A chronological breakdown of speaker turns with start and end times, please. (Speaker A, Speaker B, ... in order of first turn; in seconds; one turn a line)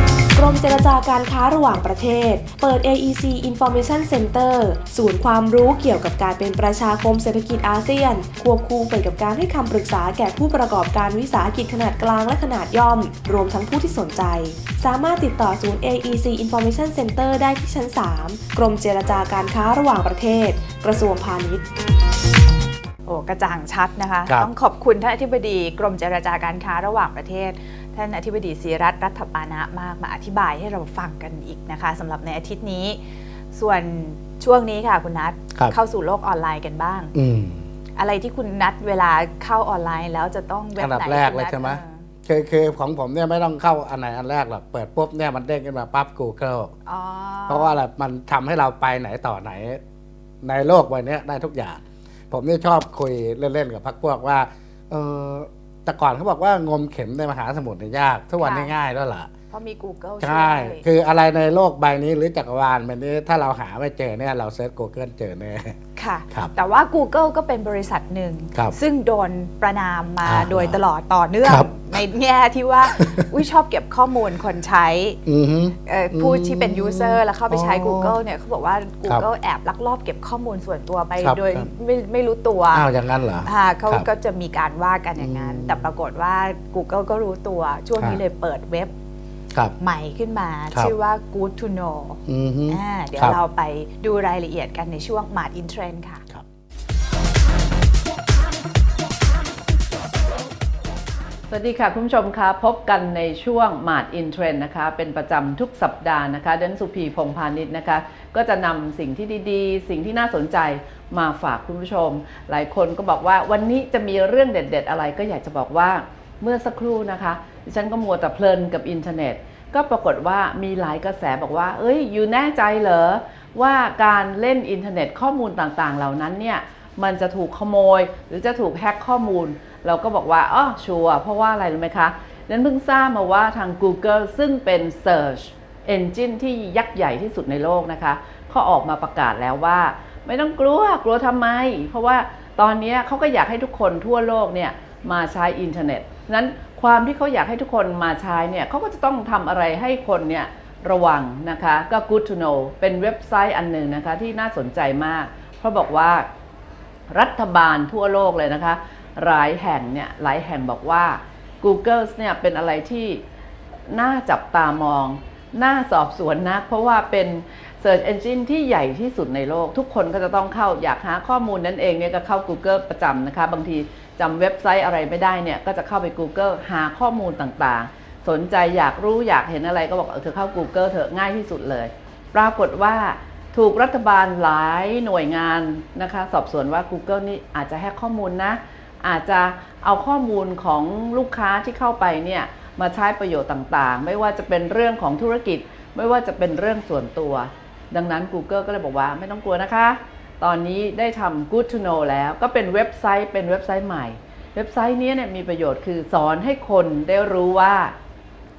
Speaker A: 0.3-21.6
Speaker B: 23.1-33.0
Speaker B: 33.5-37.1
Speaker C: 37.1-37.6
Speaker B: 38.0-42.0
Speaker C: 40.8-46.7
Speaker B: 46.9-47.8
Speaker C: 47.5-49.8
Speaker C: 50.4-59.3
Speaker B: 58.4-58.7
Speaker B: 59.5-60.8
Speaker C: 60.2-65.8
Speaker B: 66.0-75.2
Speaker C: 70.2-70.8
Speaker C: 71.4-71.9
Speaker C: 75.2-78.2
Speaker B: 75.9-82.8
Speaker C: 81.2-81.7
Speaker C: 82.7-84.1
Speaker B: 83.4-88.9
Speaker C: 85.2-85.8
Speaker B: 89.8-96.2
Speaker C: 92.3-93.4
Speaker D: 101.5-156.3
Speaker D: 157.1-163.2
Speaker D: 163.9-207.9